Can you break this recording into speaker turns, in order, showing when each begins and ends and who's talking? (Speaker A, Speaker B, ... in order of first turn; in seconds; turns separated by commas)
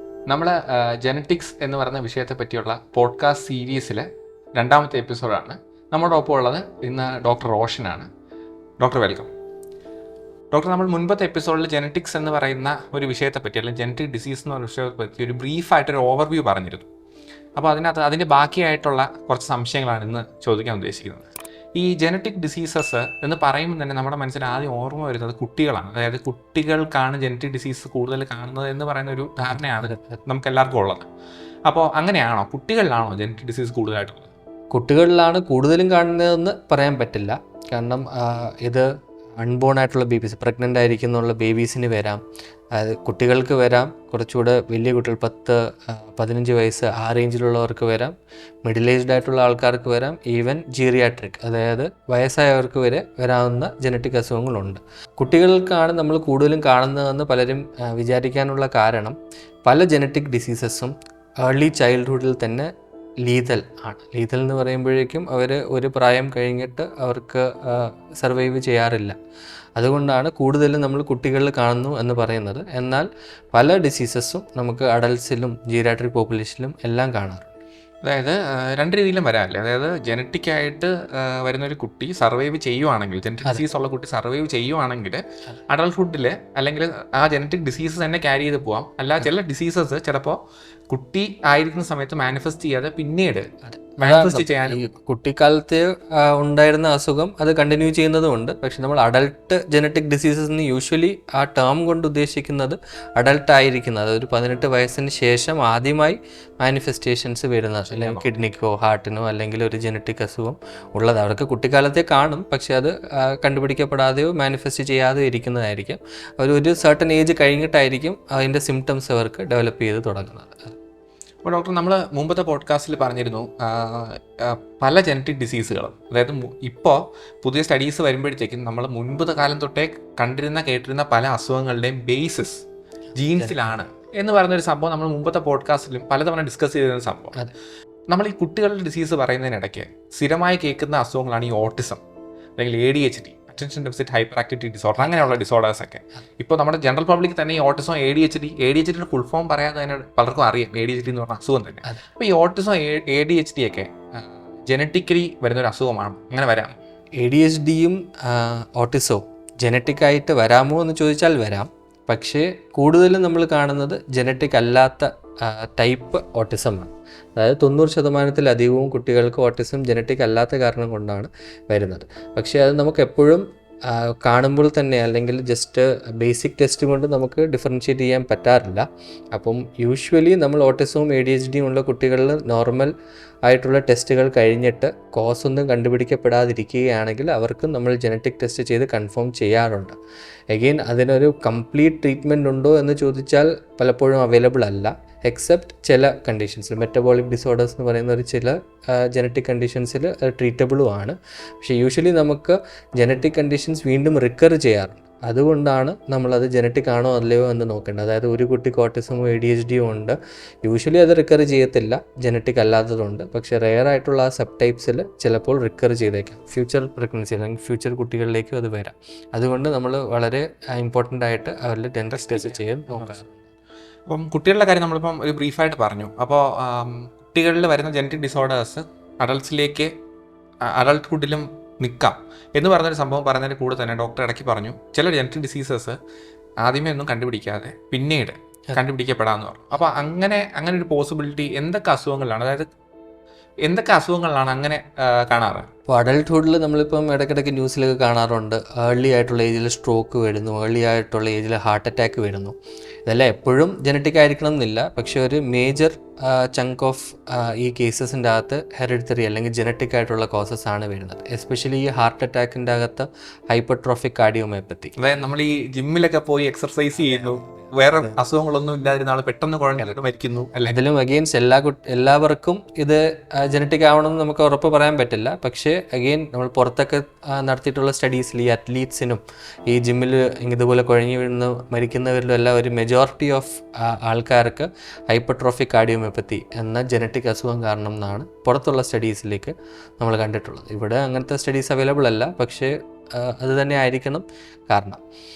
Speaker A: 0.3-8.1, Speaker A: 8.8-9.3, Speaker A: 10.5-16.9, Speaker A: 17.6-31.1, Speaker A: 31.7-34.3, Speaker B: 34.7-38.9, Speaker B: 39.4-42.2, Speaker B: 42.8-62.7, Speaker B: 63.2-69.2, Speaker B: 69.8-77.6, Speaker A: 78.0-90.4, Speaker A: 90.9-94.8, Speaker B: 93.7-120.8, Speaker A: 107.9-108.3, Speaker A: 121.5-132.6, Speaker A: 133.2-137.4, Speaker B: 133.4-133.9, Speaker A: 138.1-142.0, Speaker A: 142.6-156.8, Speaker B: 157.2-182.9, Speaker B: 183.5-190.0, Speaker B: 190.5-223.5, Speaker A: 222.1-223.2, Speaker A: 224.1-229.9, Speaker A: 230.6-236.0, Speaker A: 236.6-242.7, Speaker A: 243.6-245.7, Speaker B: 245.9-264.9, Speaker A: 265.0-270.8, Speaker B: 267.1-268.1, Speaker B: 270.7-295.0